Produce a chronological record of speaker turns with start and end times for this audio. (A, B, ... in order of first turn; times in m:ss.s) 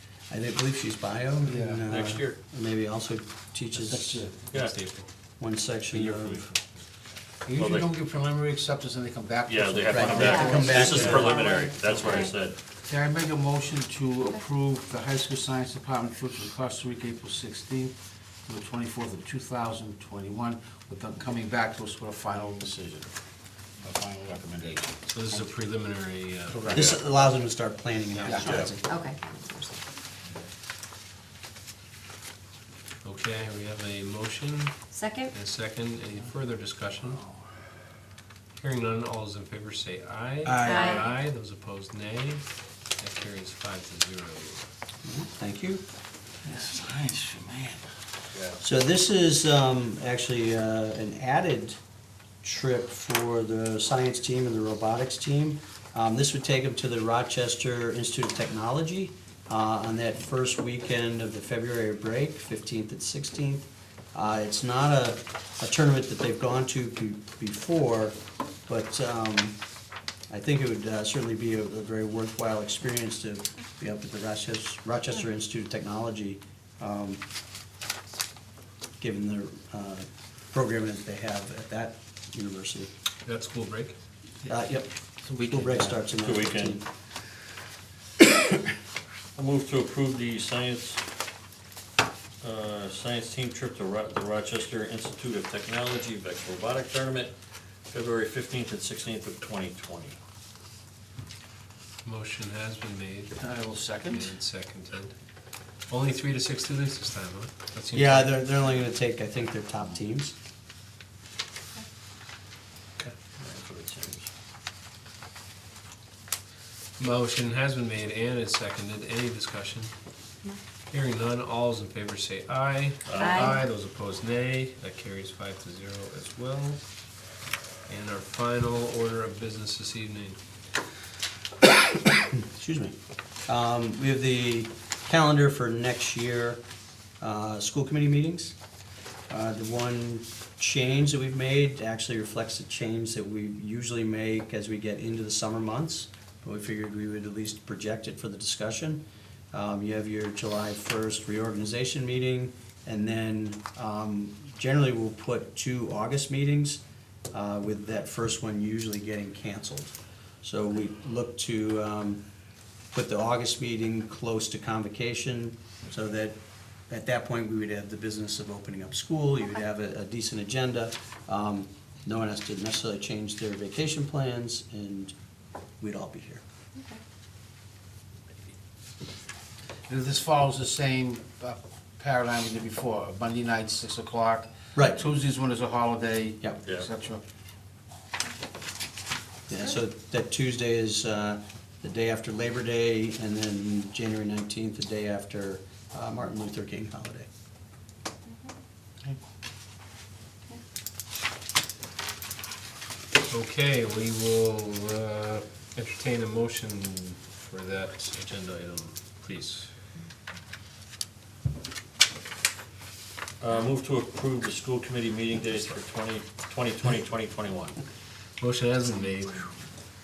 0:00.3-0:04.2 A
0:01.5-0:01.8 B
0:01.9-0:02.4 C
0:03.7-0:04.4 B
0:04.5-0:05.1 D
0:05.4-0:06.5 A
0:05.9-0:06.3 D
0:07.4-0:11.5 B
0:07.5-0:07.9 C
0:09.4-0:12.6 C
0:09.9-0:11.4 A
0:10.2-0:12.3 E
0:12.8-0:17.9 B
0:18.5-0:23.2 B
0:23.8-0:25.0 B
0:25.1-0:26.9 D
0:26.5-0:27.1 B
0:26.7-0:28.8 A
0:28.2-0:28.7 B
0:28.8-0:29.8 E
0:33.0-0:34.8 D
0:34.9-0:35.3 E
0:35.3-0:37.2 D
0:38.6-0:42.4 D
0:40.4-0:41.1 B
0:40.6-0:41.1 E
0:43.0-0:44.7 D
0:45.0-0:45.8 A
0:46.4-0:47.8 B
0:48.3-0:48.6 C
0:48.6-0:51.8 A
0:52.4-1:08.2 A
1:08.7-1:09.6 A
1:10.3-1:17.2 A
1:19.0-1:22.9 A
1:23.2-1:23.9 D
1:24.5-1:24.9 A
1:25.2-1:26.0 B
1:25.5-1:26.8 A
1:26.2-1:26.8 C
1:29.4-1:31.0 C
1:32.4-1:37.3 C
1:37.9-1:40.2 C
1:42.0-1:43.4 D
1:43.4-1:44.3 B
1:44.0-1:45.1 D
1:45.9-1:48.3 D
1:47.9-1:50.3 A
1:53.4-1:54.3 C
1:57.0-1:59.9 D
2:00.9-2:06.8 D
2:03.0-2:03.6 C
2:03.1-2:03.6 E
2:07.9-2:10.4 D
2:12.3-2:12.9 A
2:13.4-2:16.6 A
2:17.2-2:18.6 A
2:19.3-2:42.2 A
2:42.9-2:46.4 A
2:46.9-2:55.1 A
2:55.8-2:56.4 A
2:59.9-3:07.2 B
3:09.5-3:17.3 A
3:23.3-3:29.7 D
3:33.4-3:37.8 C
3:38.4-3:39.5 D